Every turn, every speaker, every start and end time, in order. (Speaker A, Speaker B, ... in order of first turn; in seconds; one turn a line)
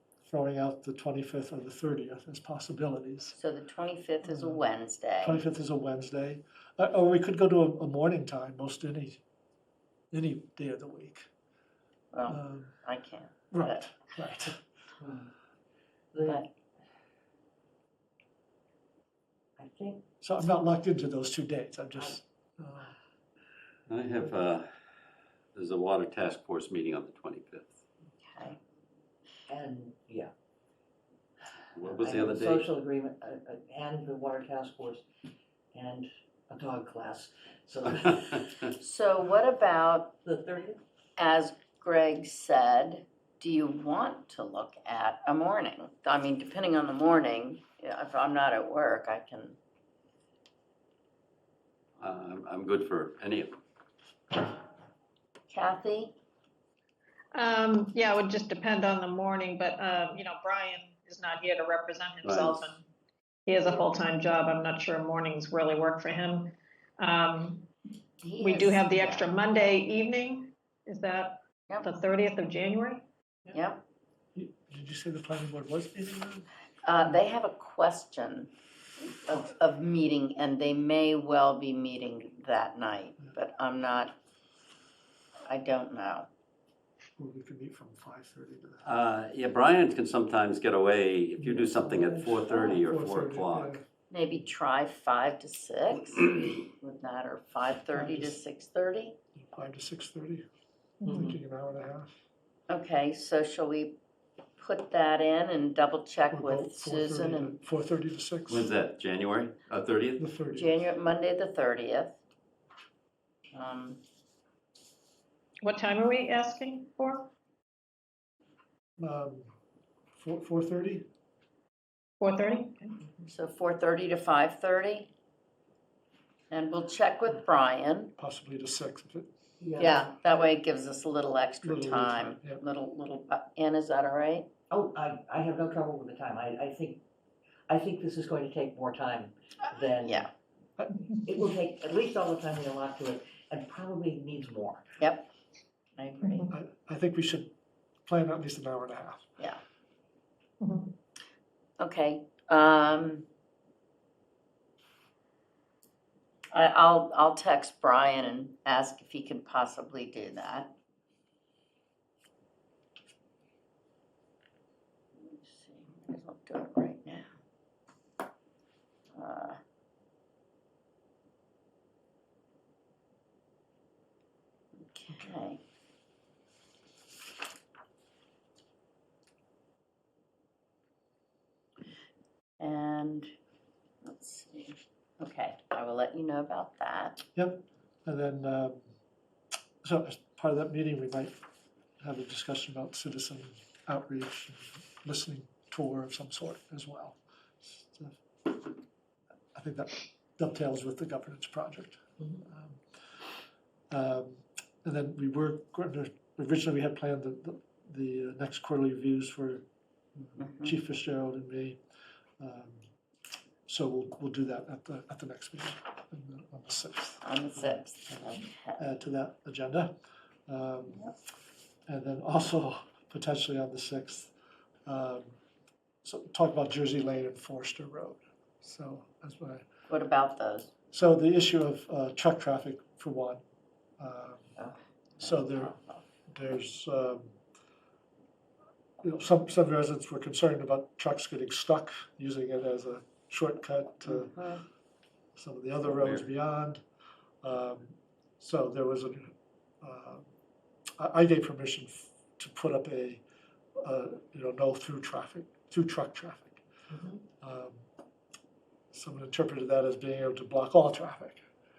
Speaker A: 0.2-3.4
Speaker B: 3.4-5.4
Speaker A: 4.3-4.6
Speaker A: 5.2-9.2
Speaker A: 10.1-11.3
Speaker B: 12.1-13.9
Speaker A: 12.3-12.8
Speaker A: 13.5-14.6
Speaker C: 15.0-15.3
Speaker C: 16.1-16.5
Speaker C: 19.6-20.1
Speaker A: 20.2-22.9
Speaker D: 23.9-24.7
Speaker D: 25.6-27.7
Speaker B: 28.2-28.6
Speaker C: 29.5-30.3
Speaker D: 31.8-32.7
Speaker C: 31.8-35.0
Speaker C: 35.7-38.5
Speaker B: 38.7-40.1
Speaker C: 40.2-40.8
Speaker B: 41.2-49.6
Speaker D: 52.0-53.6
Speaker B: 55.5-56.1
Speaker E: 57.3-62.9
Speaker D: 62.2-62.7
Speaker E: 63.5-67.7
Speaker B: 68.2-69.3
Speaker E: 68.4-73.0
Speaker B: 73.5-73.8
Speaker A: 74.3-76.5
Speaker B: 76.8-78.5
Speaker B: 79.2-84.2
Speaker B: 85.5-86.3
Speaker A: 87.2-88.9
Speaker D: 88.8-93.8
Speaker A: 91.4-93.8
Speaker B: 94.1-99.2
Speaker A: 97.9-98.4
Speaker A: 99.4-100.5
Speaker E: 101.0-101.4
Speaker A: 101.1-102.1
Speaker B: 102.7-104.0
Speaker B: 104.6-107.6
Speaker A: 106.3-108.7
Speaker D: 108.5-110.2
Speaker A: 110.2-110.8
Speaker B: 110.5-112.2
Speaker B: 113.5-114.0
Speaker E: 115.6-117.3
Speaker A: 119.0-119.5
Speaker A: 120.2-121.1
Speaker E: 122.2-123.0
Speaker B: 123.3-125.1
Speaker B: 126.5-128.1
Speaker A: 128.2-129.3
Speaker C: 129.6-130.2
Speaker B: 129.8-134.5
Speaker A: 131.6-132.6
Speaker C: 134.7-137.0
Speaker C: 137.7-140.3
Speaker A: 140.8-141.1
Speaker C: 141.3-144.9
Speaker B: 145.0-145.3
Speaker B: 146.0-146.5
Speaker E: 146.2-146.5
Speaker A: 146.5-147.5
Speaker A: 148.1-149.3
Speaker E: 150.6-150.9
Speaker B: 151.8-153.3
Speaker B: 156.5-160.7
Speaker B: 165.2-167.3
Speaker B: 169.2-169.6
Speaker B: 174.9-175.6
Speaker B: 182.6-183.3
Speaker B: 184.1-187.2
Speaker A: 187.3-188.9
Speaker A: 189.8-191.3
Speaker A: 192.0-198.2
Speaker A: 199.6-202.8
Speaker A: 203.9-209.6
Speaker A: 210.4-211.8
Speaker B: 210.4-210.7
Speaker A: 212.4-212.8
Speaker A: 213.7-219.9
Speaker B: 217.2-218.8
Speaker A: 220.5-221.1
Speaker A: 221.9-224.3
Speaker A: 224.9-225.3
Speaker A: 226.0-229.7
Speaker B: 229.9-230.7
Speaker A: 230.9-233.4
Speaker A: 234.0-234.6
Speaker B: 234.6-236.0
Speaker A: 235.2-235.8
Speaker A: 236.3-237.3
Speaker A: 239.0-244.4
Speaker B: 244.1-244.6
Speaker A: 245.4-246.8
Speaker D: 245.9-246.2
Speaker A: 247.4-250.2
Speaker A: 251.0-253.2
Speaker A: 253.8-256.6
Speaker C: 256.9-257.2
Speaker A: 257.4-257.9
Speaker A: 258.9-261.4